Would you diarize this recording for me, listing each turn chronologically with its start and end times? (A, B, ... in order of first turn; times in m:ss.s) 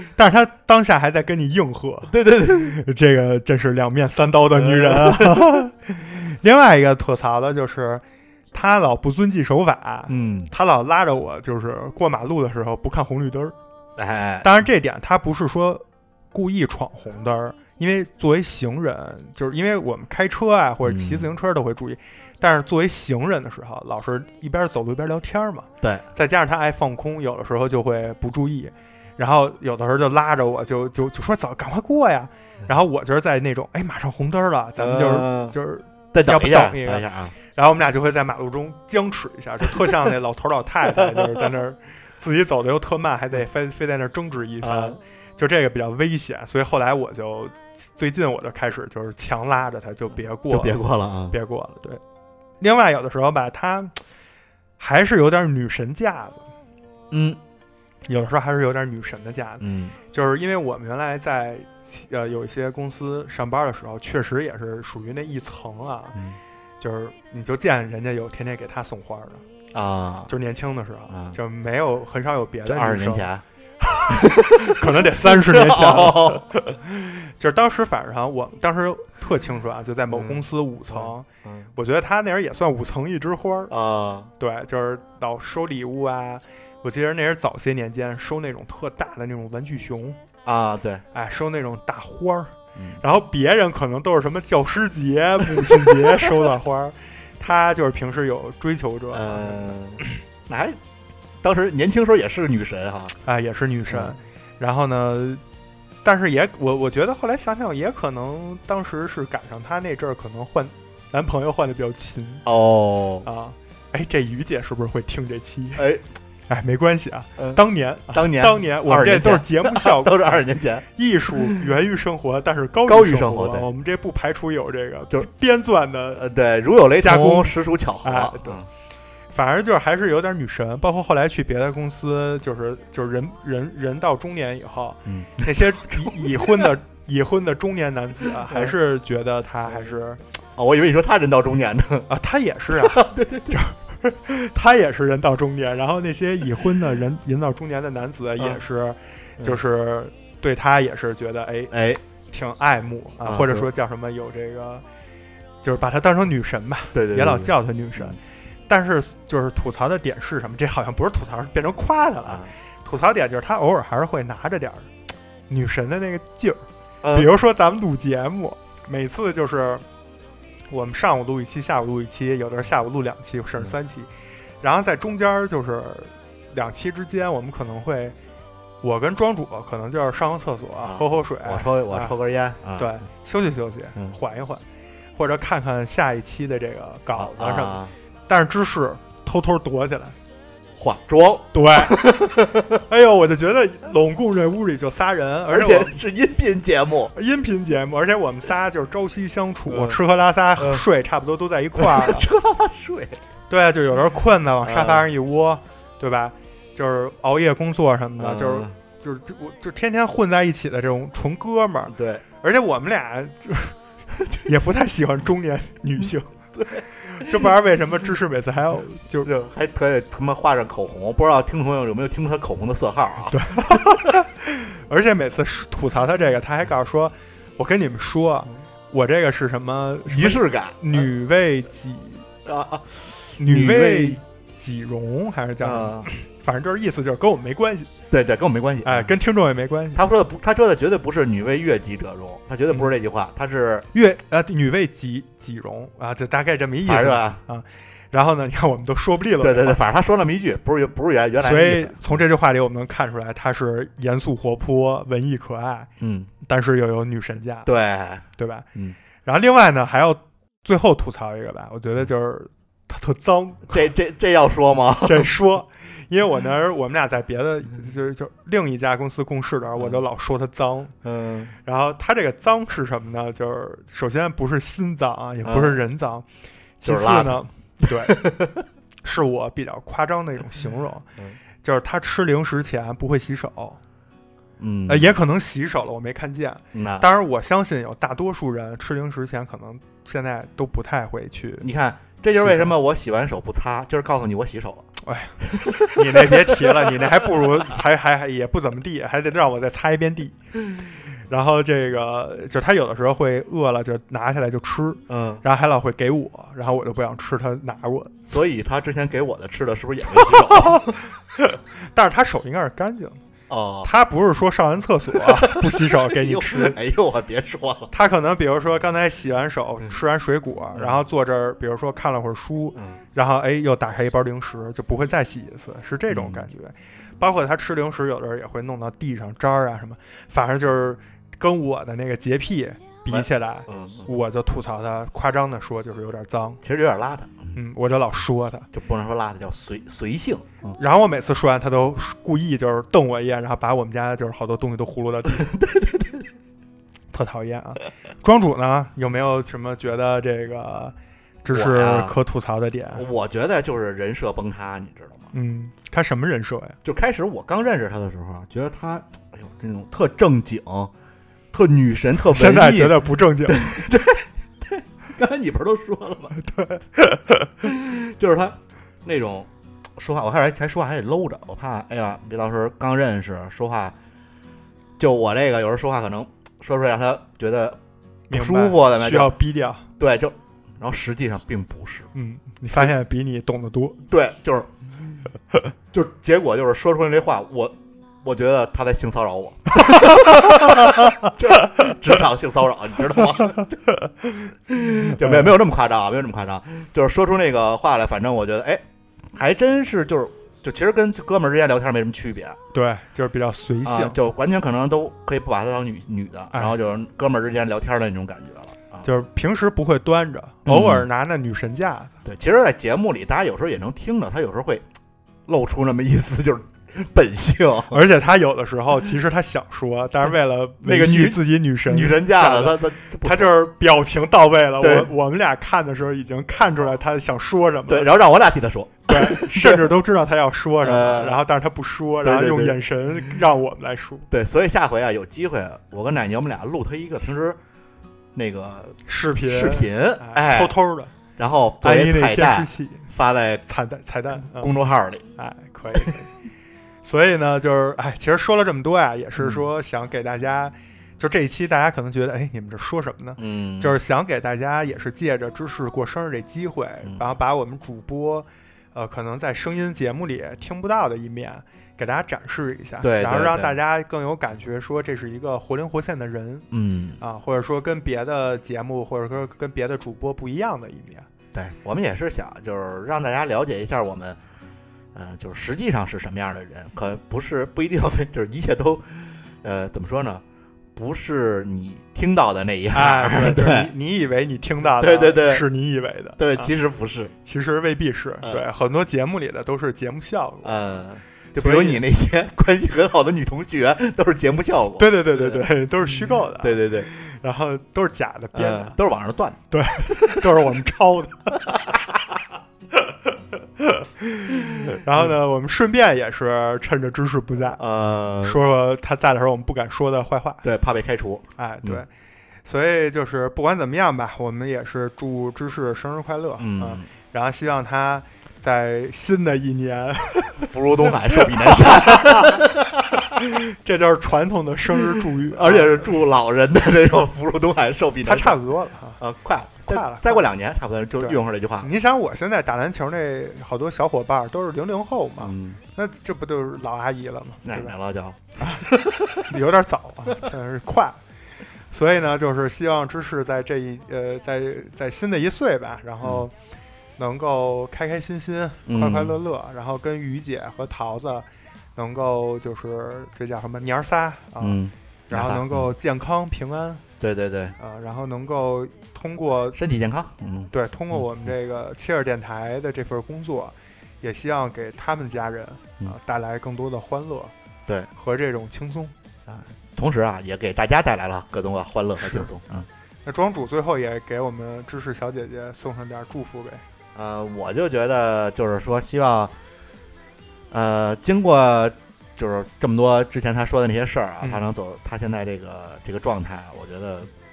0:00.1-0:13.5 A
0:02.1-0:02.8 B
0:04.5-0:05.7 B
0:10.1-0:10.5 B
0:14.0-0:14.6 B
0:14.4-0:52.0 A
0:20.8-0:21.3 B
0:34.8-0:35.6 B
0:36.1-0:37.3 B
0:41.0-0:41.3 B
0:44.6-0:45.0 B
0:50.5-0:51.3 B
0:52.6-0:53.9 A
0:54.8-0:56.5 A
0:57.1-0:57.4 B
0:58.1-1:06.2 A
0:59.6-0:59.9 B
1:06.8-1:09.4 A
1:09.7-1:10.3 B
1:10.3-1:13.3 A
1:11.1-1:11.4 B
1:12.6-1:13.4 B
1:13.8-1:23.7 A
1:14.1-1:16.5 B
1:20.1-1:21.7 B
1:23.7-1:24.3 B
1:24.4-1:30.2 A
1:30.4-1:31.0 B
1:31.1-1:39.7 A
1:32.8-1:33.0 B
1:35.6-1:36.2 B
1:39.1-1:40.8 B
1:41.4-1:43.1 B
1:43.2-1:45.4 A
1:43.9-1:44.2 B
1:46.0-1:52.4 A
1:52.4-1:53.3 B
1:53.2-1:55.8 A
1:55.8-1:56.0 B
1:56.5-2:00.4 A
1:57.4-2:00.8 B
2:00.9-2:06.2 A
2:02.8-2:03.7 B
2:06.1-2:08.7 B
2:07.0-2:08.6 A
2:09.3-2:20.2 A
2:15.0-2:16.7 B
2:18.4-2:18.7 B
2:19.7-2:19.9 B
2:20.6-2:22.1 B
2:22.1-2:31.7 A
2:22.7-2:23.6 B
2:31.7-2:32.0 B
2:32.3-2:34.8 A
2:33.2-2:33.7 B
2:35.6-2:44.9 A
2:36.9-2:38.2 B
2:45.5-2:49.8 A
2:47.0-2:47.3 B
2:50.7-2:54.1 A
2:54.6-2:58.2 A
2:58.8-3:02.2 A
3:00.8-3:03.0 B
3:02.7-3:04.6 A
3:05.1-3:10.1 A
3:07.1-3:07.9 B
3:10.7-3:12.8 B
3:11.5-3:12.0 A
3:12.9-3:15.9 A
3:15.5-3:17.1 B
3:17.1-3:22.3 A
3:19.7-3:20.0 B
3:20.6-3:20.8 B
3:21.8-3:23.2 B
3:23.5-3:33.8 A
3:24.6-3:25.1 B
3:28.2-3:28.7 B
3:31.9-3:32.2 B
3:34.4-3:36.4 A
3:36.5-3:37.5 B
3:37.0-3:39.3 A
3:39.2-3:44.0 B
3:43.3-3:52.2 A
3:50.1-3:51.0 B
3:52.4-3:54.2 B
3:53.4-3:57.9 A
3:55.6-3:56.1 B
3:58.1-3:59.1 B
3:58.8-4:00.0 A
3:59.9-4:03.8 B
4:03.9-4:09.8 A
4:06.8-4:07.4 B
4:09.4-4:12.2 B
4:11.4-4:15.9 A
4:16.0-4:16.3 B
4:16.4-4:17.7 A
4:17.6-4:19.0 B
4:18.4-4:18.6 A
4:19.2-4:23.8 A
4:23.7-4:25.3 B
4:25.0-4:30.9 A
4:29.8-4:30.0 B
4:31.0-4:31.5 B
4:31.6-4:36.2 A
4:35.4-4:35.8 B
4:36.8-4:38.2 A
4:36.8-4:37.4 B
4:38.0-4:38.6 B
4:39.0-4:41.1 A
4:41.6-4:43.8 A
4:44.6-4:45.2 B
4:44.9-4:51.7 A
4:46.7-4:47.1 B
4:51.6-4:54.9 B
4:52.3-4:52.7 A
4:55.0-5:00.4 A
4:55.4-4:57.0 B
5:01.3-5:08.2 A
5:05.1-5:05.4 B
5:08.3-5:10.8 B
5:10.5-5:13.2 A
5:13.5-5:13.9 B
5:13.8-5:16.7 A
5:15.1-5:17.9 B
5:17.9-5:36.6 A
5:20.7-5:21.0 B
5:22.7-5:23.0 B
5:26.1-5:26.5 B
5:33.1-5:34.1 B
5:36.6-5:37.6 B
5:37.5-5:38.7 A
5:38.7-5:40.8 B
5:40.8-5:45.5 A
5:45.3-5:46.3 B
5:47.1-5:53.0 A
5:51.5-5:52.2 B
5:52.9-5:55.3 B
5:55.3-5:56.8 A
5:56.8-6:00.9 B
6:01.5-6:06.4 B
6:02.2-6:03.7 A
6:06.4-6:07.5 A
6:07.6-6:13.9 B
6:15.0-6:17.8 B
6:18.3-6:19.3 B
6:18.3-6:19.9 A
6:20.0-6:22.1 B
6:22.1-6:24.0 A
6:24.1-6:24.7 B
6:25.9-6:33.8 B
6:29.8-6:31.1 A
6:34.7-6:42.6 B
6:35.1-6:35.5 A
6:42.7-6:44.2 A
6:43.8-6:49.0 B
6:49.0-6:52.1 A
6:50.6-6:51.1 B
6:52.2-6:54.8 B
6:55.5-6:58.0 B
6:57.9-7:08.1 A
7:00.8-7:03.5 B
7:04.8-7:05.1 B
7:07.9-7:09.9 B
7:09.1-7:14.2 A
7:10.8-7:11.4 B
7:12.2-7:12.8 B
7:14.3-7:17.6 B
7:18.3-7:20.7 B
7:19.1-7:21.1 A
7:21.4-7:23.6 B
7:21.8-7:23.1 A
7:23.7-7:24.7 A
7:24.4-7:25.2 B
7:25.4-7:26.3 A
7:27.0-7:46.6 A
7:29.4-7:29.6 B
7:33.4-7:34.0 B
7:37.0-7:37.3 B
7:43.0-7:43.8 B
7:46.7-7:47.2 B
7:47.2-7:51.3 A
7:51.5-7:54.4 B
7:55.1-8:00.4 B
8:01.0-8:03.9 B
8:02.9-8:06.7 A
8:05.0-8:05.6 B
8:06.4-8:07.3 B
8:07.4-8:10.8 A
8:10.6-8:17.1 B
8:11.6-8:12.0 A
8:15.0-8:19.0 A
8:18.5-8:20.4 B
8:19.7-8:21.7 A
8:21.7-8:22.2 B
8:23.8-8:27.8 A
8:27.7-8:28.6 B
8:28.4-8:30.6 A
8:30.6-8:32.0 B
8:31.6-8:32.1 A
8:32.6-8:40.6 A
8:36.6-8:37.1 B
8:40.6-8:43.2 B
8:41.3-8:42.6 A
8:43.8-8:46.1 A
8:45.5-8:48.6 B
8:48.2-8:49.2 A
8:49.2-8:51.9 B
8:49.8-8:50.4 A
8:51.2-8:57.9 A
8:55.4-8:55.8 B
8:57.6-8:59.4 B
8:59.5-9:01.2 A
9:01.9-9:06.5 A
9:07.2-9:11.4 A
9:08.9-9:09.4 B
9:12.0-9:17.0 A
9:14.6-9:15.9 B
9:17.2-9:17.7 B
9:17.8-9:19.8 A
9:19.7-9:21.5 B
9:20.7-9:27.5 A
9:28.2-9:29.1 A
9:29.5-9:32.9 B
9:32.2-9:36.8 A
9:37.1-9:39.5 B
9:40.7-9:47.3 B
9:44.4-9:44.7 A